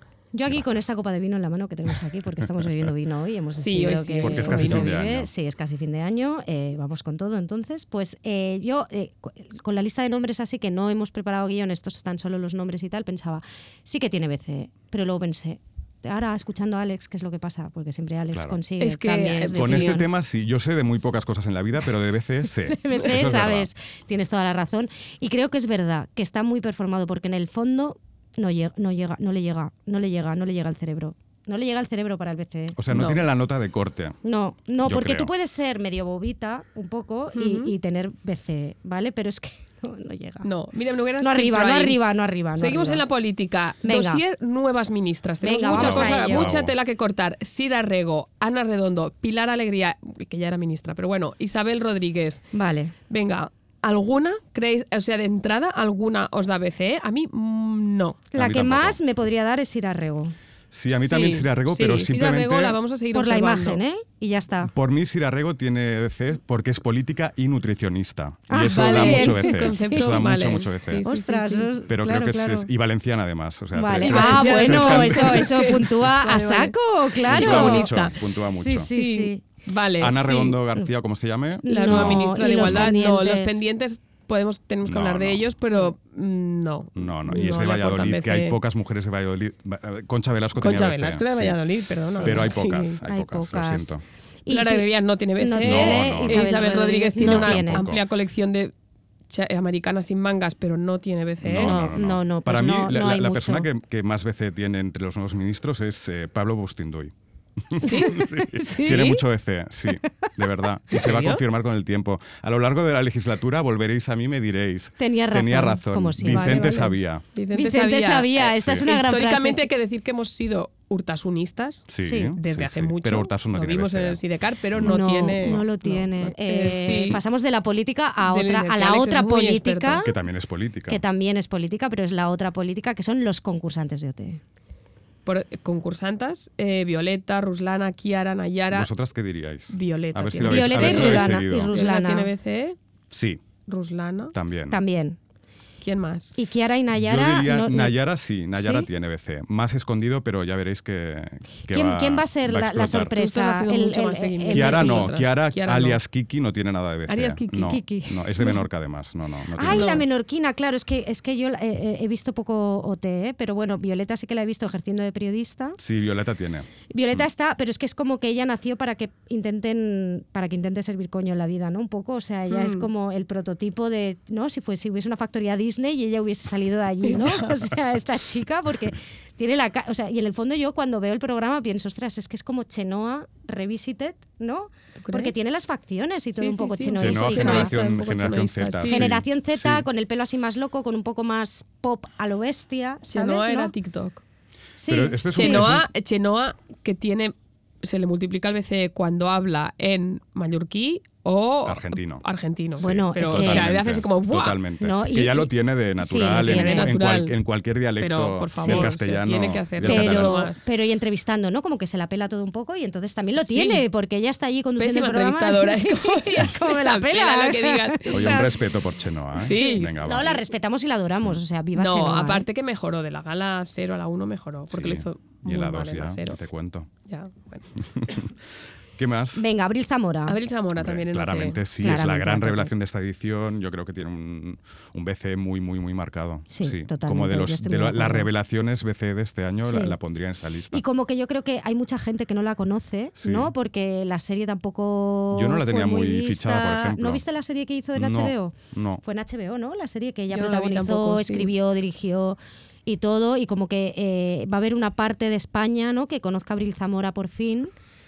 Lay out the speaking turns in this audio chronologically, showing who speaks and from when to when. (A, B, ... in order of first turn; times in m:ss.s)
0:00.3-0:20.1 A
0:03.6-0:04.9 B
0:04.2-0:05.3 C
0:18.3-0:18.6 C
0:18.8-0:20.0 B
0:19.5-0:23.7 C
0:22.7-0:32.8 A
0:32.8-0:34.2 C
0:32.9-0:33.2 B
0:34.2-0:40.5 A
0:34.8-0:35.3 C
0:37.3-0:37.7 B
0:40.4-0:42.0 B
0:41.2-0:43.0 A
0:42.6-0:52.4 B
0:43.8-0:44.2 A
0:45.4-0:46.5 A
0:45.7-0:46.7 C
0:52.5-0:52.9 A
0:53.1-0:58.2 B
0:58.3-1:00.4 A
0:58.4-0:59.0 C
1:00.7-1:02.8 C
1:00.9-1:03.8 B
1:03.1-1:04.7 A
1:04.7-1:11.0 C
1:08.5-1:10.2 A
1:08.7-1:11.7 B
1:11.0-1:12.7 A
1:11.9-1:15.8 C
1:13.8-1:17.9 A
1:14.0-1:18.2 B
1:17.3-1:18.9 C
1:18.6-1:19.4 A
1:18.8-1:20.6 B
1:20.0-1:22.9 C
1:21.6-1:23.6 A
1:21.7-1:28.6 B
1:24.8-1:25.5 C
1:27.0-1:31.6 C
1:30.6-1:33.0 B
1:32.2-1:32.6 A
1:32.2-1:34.0 C
1:33.1-1:34.9 A
1:34.5-1:38.7 B
1:35.4-1:37.9 A
1:35.6-1:38.0 C
1:39.3-1:41.8 B
1:41.4-1:47.1 C
1:41.5-1:43.7 A
1:47.7-1:57.2 C
1:47.8-1:49.2 B
1:47.9-1:48.7 A
1:50.9-1:51.4 B
1:55.0-1:56.8 A
1:56.2-2:07.2 B
1:57.5-1:59.7 A
2:01.9-2:04.2 C
2:02.0-2:02.3 A
2:04.7-2:05.6 C
2:04.8-2:10.1 A
2:06.9-2:07.2 C
2:08.2-2:10.0 B
2:10.0-2:11.0 C
2:10.9-2:14.4 A
2:15.3-2:18.9 B
2:18.7-2:21.7 C
2:19.7-2:22.8 B
2:20.4-2:22.3 A
2:23.1-2:23.4 C
2:23.7-2:24.3 B
2:24.3-2:24.8 C
2:24.7-2:25.2 A
2:25.8-2:26.4 B
2:26.4-2:28.0 A
2:27.0-2:33.2 C
2:28.6-2:28.9 A
2:31.7-2:35.1 A
2:33.0-2:36.0 B
2:34.5-2:40.0 C
2:37.1-2:37.8 B
2:37.6-2:38.4 A
2:39.6-2:45.8 A
2:39.7-2:40.0 B
2:45.8-2:47.2 C
2:46.9-3:07.7 A
2:52.5-2:52.9 B
2:57.0-2:57.6 B
3:05.0-3:05.3 B
3:06.4-3:09.1 B
3:07.0-3:09.8 C
3:08.9-3:13.7 A
3:13.1-3:14.2 B
3:14.8-3:15.8 A
3:14.9-3:15.9 C
3:15.3-3:24.6 B
3:21.6-3:22.2 C
3:22.8-3:23.7 A
3:22.8-3:30.4 C
3:24.8-3:26.9 A
3:26.2-3:27.3 B
3:28.0-3:30.6 B
3:28.6-3:28.9 A
3:29.8-3:38.5 A
3:33.4-3:33.8 B
3:34.8-3:38.5 B
3:38.1-3:40.4 C
3:39.4-3:40.0 B
3:39.6-3:42.5 A
3:41.8-3:46.4 B
3:44.7-3:46.9 C
3:47.1-3:47.7 B
3:47.9-3:48.3 C
3:49.0-3:49.4 C
3:49.4-3:50.4 A
3:50.3-3:51.6 B
3:50.7-4:00.8 C
3:51.8-3:52.7 A
3:56.5-3:58.3 A
3:59.6-4:00.0 A
4:00.7-4:17.7 A
4:03.2-4:03.5 C
4:05.3-4:07.2 C
4:08.0-4:09.0 C
4:10.3-4:11.5 B